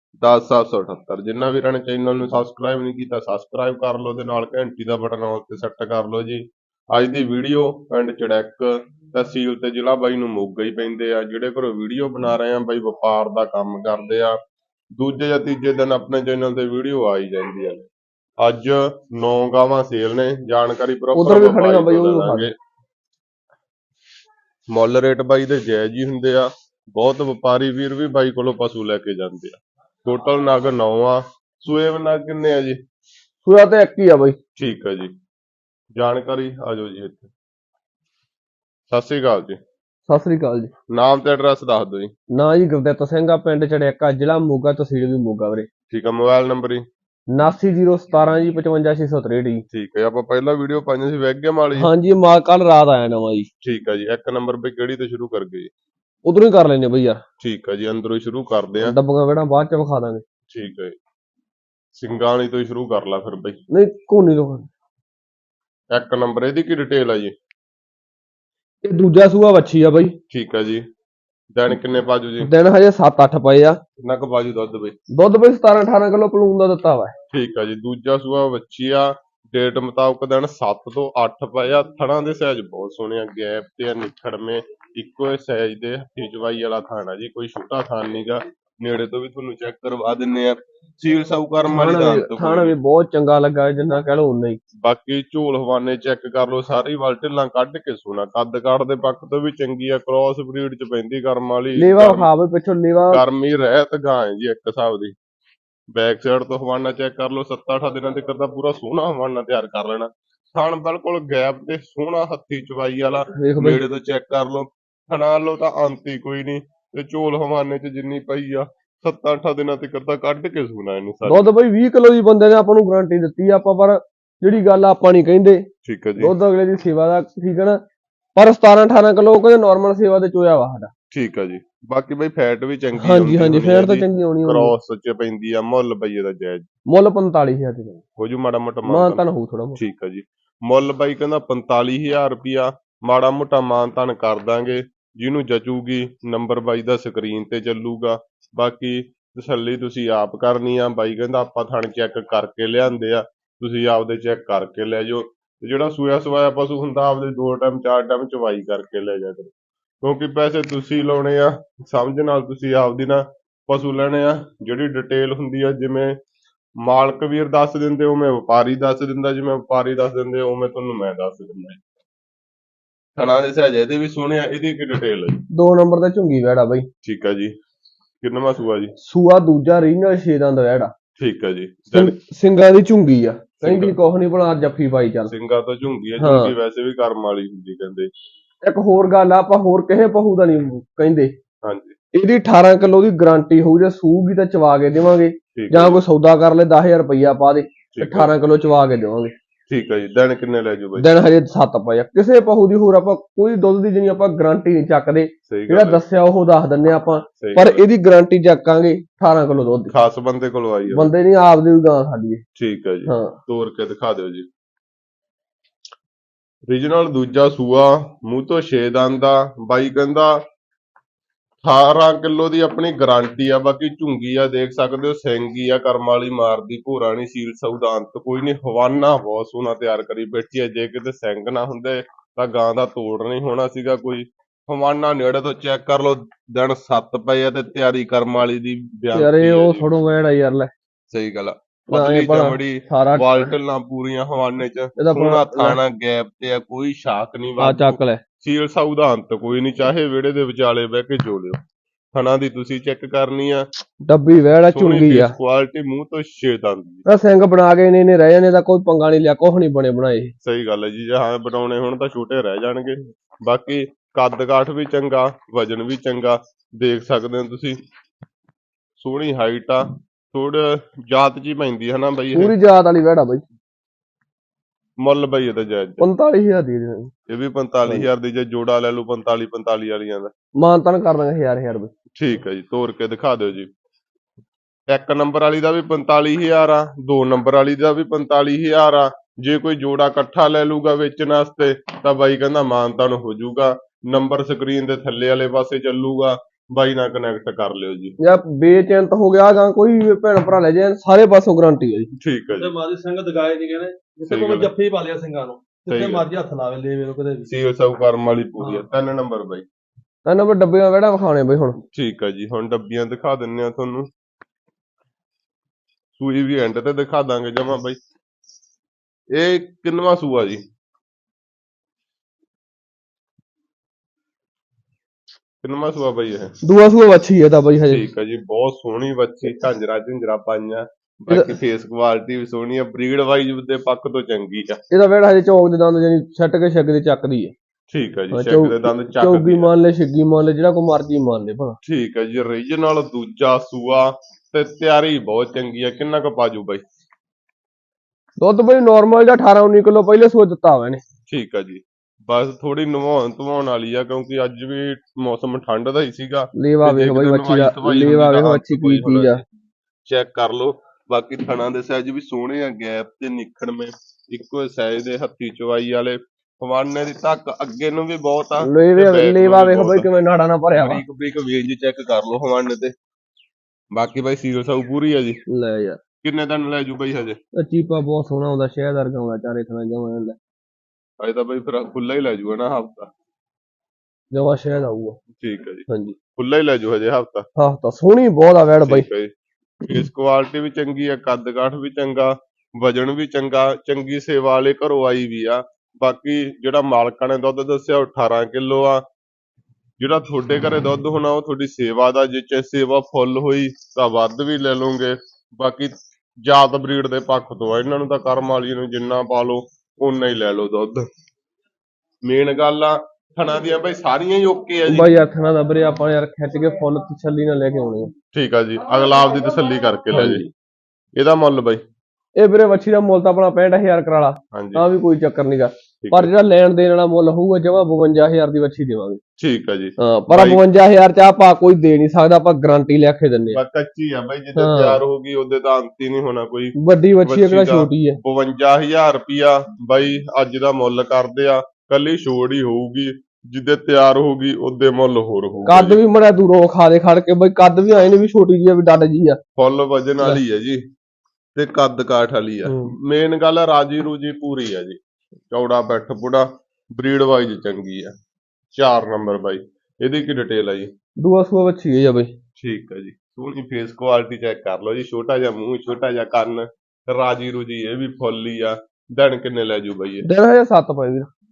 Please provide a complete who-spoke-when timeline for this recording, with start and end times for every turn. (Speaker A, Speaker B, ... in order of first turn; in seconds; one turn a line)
Speaker A: 0.2-14.4
Speaker A: 15.0-17.9
Speaker A: 18.4-22.5
Speaker B: 21.2-22.5
Speaker A: 24.7-32.8
Speaker B: 33.5-34.4
Speaker A: 34.6-35.1
Speaker A: 36.0-37.3
Speaker A: 38.9-39.6
Speaker B: 40.1-40.7
Speaker A: 40.9-42.1
Speaker B: 42.3-45.7
Speaker A: 45.9-46.8
Speaker B: 47.3-49.6
Speaker A: 49.7-51.9
Speaker B: 51.8-53.5
Speaker A: 53.6-55.7
Speaker B: 56.3-57.2
Speaker A: 57.4-59.0
Speaker B: 58.8-60.2
Speaker A: 60.5-61.0
Speaker A: 62.0-63.6
Speaker B: 63.7-64.7
Speaker A: 65.9-67.3
Speaker B: 68.8-70.2
Speaker A: 70.3-70.8
Speaker A: 71.6-72.5
Speaker B: 72.4-73.8
Speaker A: 74.0-75.0
Speaker B: 75.1-77.1
Speaker A: 77.3-92.7
Speaker B: 91.7-94.6
Speaker A: 94.8-102.3
Speaker B: 101.8-103.2
Speaker A: 103.1-105.2
Speaker A: 106.0-121.5
Speaker B: 113.3-113.8
Speaker B: 121.3-125.7
Speaker A: 125.8-126.3
Speaker B: 126.2-127.8
Speaker B: 128.4-130.9
Speaker A: 131.1-136.7
Speaker B: 133.0-134.7
Speaker B: 136.9-138.0
Speaker A: 138.2-139.2
Speaker B: 138.9-139.8
Speaker A: 139.8-166.2
Speaker A: 166.8-171.8
Speaker A: 173.2-175.4
Speaker B: 175.5-176.9
Speaker A: 177.0-177.5
Speaker A: 178.2-178.9
Speaker B: 179.0-180.9
Speaker A: 181.2-182.2
Speaker B: 181.9-185.3
Speaker A: 183.6-184.0
Speaker A: 185.3-188.1
Speaker B: 186.2-186.5
Speaker B: 188.6-191.3
Speaker A: 191.6-191.9
Speaker B: 192.1-199.3
Speaker A: 195.6-196.0
Speaker A: 197.9-198.3
Speaker A: 199.7-201.1
Speaker B: 201.0-209.9
Speaker A: 205.5-206.0
Speaker A: 207.4-207.8
Speaker A: 209.9-211.1
Speaker B: 210.9-212.4
Speaker A: 212.6-214.5
Speaker B: 213.1-213.4
Speaker A: 216.7-220.3
Speaker A: 221.6-239.9
Speaker B: 239.1-240.7
Speaker A: 241.1-251.6
Speaker B: 241.9-243.5
Speaker B: 245.0-245.8
Speaker B: 247.6-248.2
Speaker A: 252.2-253.7
Speaker B: 254.1-255.3
Speaker A: 254.7-257.1
Speaker B: 257.1-260.3
Speaker A: 260.4-267.8
Speaker A: 269.0-272.5
Speaker B: 272.4-273.4
Speaker A: 275.0-276.1
Speaker B: 276.0-277.1
Speaker A: 277.3-280.3
Speaker B: 280.6-281.9
Speaker A: 282.2-283.7
Speaker A: 284.9-298.1
Speaker B: 298.2-302.1
Speaker A: 302.2-302.7
Speaker C: 302.5-307.5
Speaker A: 304.3-304.7
Speaker A: 305.9-306.3
Speaker A: 307.5-309.7
Speaker B: 310.2-311.8
Speaker A: 311.9-314.1
Speaker A: 316.2-318.0
Speaker A: 319.4-320.6
Speaker A: 325.6-326.6
Speaker B: 326.6-328.0
Speaker A: 327.9-334.8
Speaker B: 331.3-331.6
Speaker B: 334.9-337.5
Speaker A: 337.9-339.7
Speaker B: 338.3-341.8
Speaker A: 341.8-346.8
Speaker B: 348.4-351.0
Speaker A: 351.3-359.4
Speaker B: 356.6-359.4
Speaker A: 360.1-370.1
Speaker B: 368.6-371.0
Speaker A: 370.8-372.9
Speaker A: 373.9-375.4
Speaker B: 375.5-376.0
Speaker A: 376.2-377.4
Speaker B: 377.6-380.4
Speaker A: 381.2-383.1
Speaker B: 384.3-385.2
Speaker A: 385.4-387.5
Speaker B: 385.9-386.2
Speaker B: 387.6-389.1
Speaker A: 388.9-389.3
Speaker A: 389.8-399.0
Speaker A: 400.0-411.1
Speaker A: 412.3-415.1
Speaker B: 414.9-418.1
Speaker A: 418.3-420.4
Speaker B: 420.1-420.5
Speaker A: 421.2-421.8
Speaker B: 422.4-429.2
Speaker A: 424.5-424.8
Speaker A: 426.0-426.3
Speaker A: 429.4-430.6
Speaker B: 430.0-433.6
Speaker A: 433.5-446.0
Speaker B: 434.6-435.0
Speaker B: 436.8-438.2
Speaker B: 445.7-449.4
Speaker A: 449.6-450.8
Speaker A: 451.6-455.0
Speaker B: 452.6-452.9
Speaker A: 455.5-458.1
Speaker A: 458.7-460.9
Speaker B: 461.2-462.3
Speaker A: 462.6-470.3
Speaker B: 470.2-471.3